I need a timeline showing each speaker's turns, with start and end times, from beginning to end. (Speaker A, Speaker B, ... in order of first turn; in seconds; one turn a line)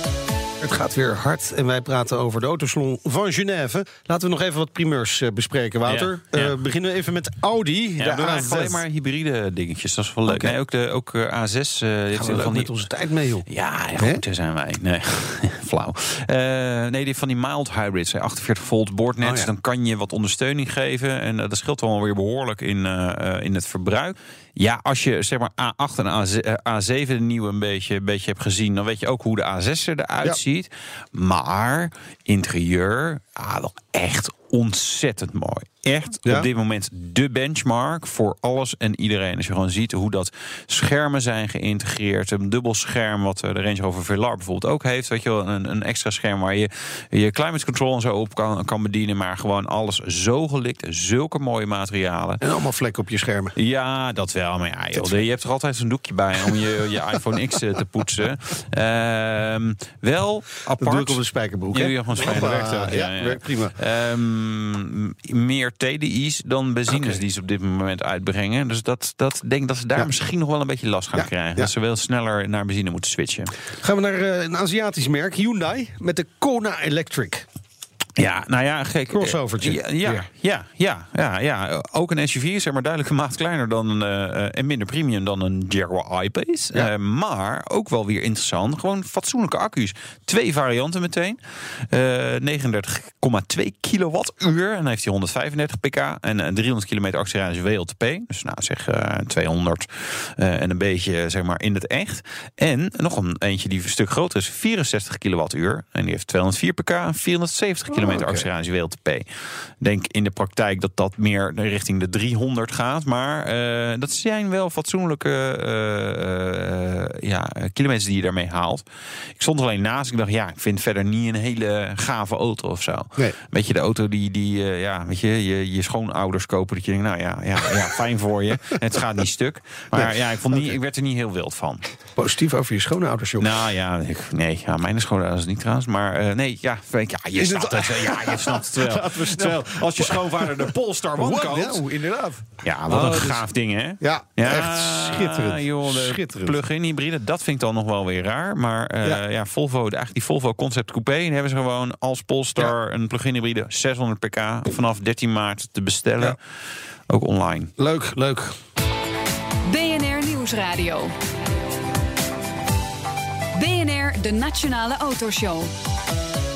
Speaker A: 0.6-8.8
Speaker B: 5.8-6.6
Speaker B: 8.0-12.8
Speaker A: 10.2-10.6
Speaker A: 12.1-14.2
Speaker B: 13.4-52.4
Speaker A: 19.2-19.5
Speaker A: 52.4-53.5
Speaker B: 53.5-61.2
Speaker A: 54.9-55.2
Speaker A: 56.4-56.8
Speaker A: 60.8-63.7
Speaker B: 61.7-73.5
Speaker A: 71.1-71.7
Speaker A: 73.7-77.5
Speaker B: 78.2-91.4
Speaker A: 79.1-80.3
Speaker B: 91.9-109.2
Speaker A: 107.9-108.5
Speaker B: 109.8-118.8
Speaker B: 119.4-131.8
Speaker A: 129.9-130.7
Speaker A: 132.2-133.5
Speaker B: 133.4-141.8
Speaker A: 137.3-143.5
Speaker B: 142.6-156.4
Speaker A: 144.0-146.6
Speaker B: 157.1-157.7
Speaker A: 157.8-158.6
Speaker C: 159.7-161.1
Speaker C: 163.5-165.7